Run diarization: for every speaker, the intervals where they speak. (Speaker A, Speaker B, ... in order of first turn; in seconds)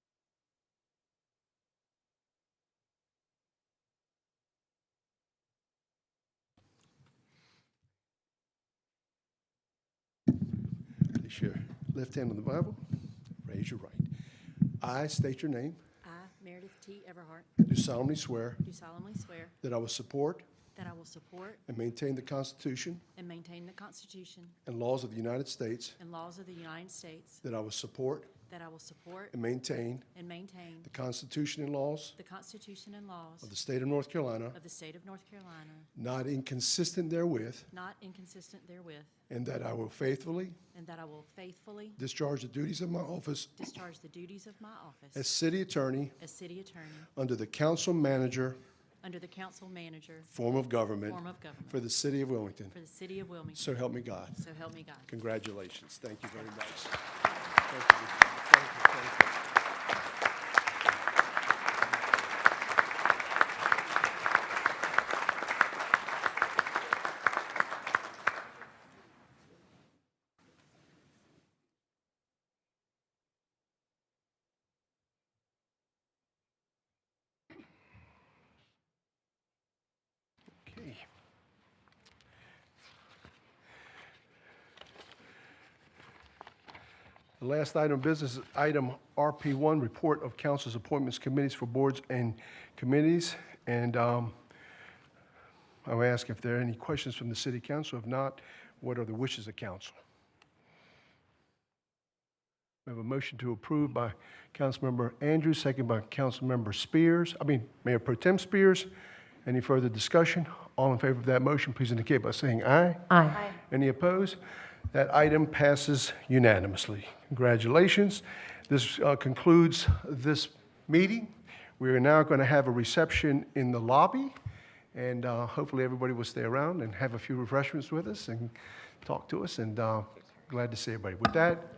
Speaker A: 11.1-12.8, 13.4-14.1, 14.8-15.8, 17.6-18.6, 19.6-20.4, 21.6-23.0, 24.6-26.0, 27.4-28.3, 29.3-30.1, 30.8-32.1, 33.4-34.6, 36.0-37.7, 39.3-40.6, 42.0-43.5, 45.1-46.1, 47.1-48.6, 50.3-52.8, 53.5-54.4, 55.1-57.0, 57.6-59.3, 80.6-81.0, 87.4-94.3, 95.8-100.0, 102.8-108.9, 109.4-114.4, 114.9-124.3, 124.9-131.7
Speaker B: 16.0-17.5, 18.6-19.5, 20.7-21.6, 23.1-24.5, 26.0-27.4, 28.5-29.3, 30.1-30.9, 32.1-33.5, 34.5-35.9, 37.7-39.1, 40.7-42.0, 43.6-45.3, 46.2-47.1, 49.0-50.3, 51.0-51.8, 52.7-55.1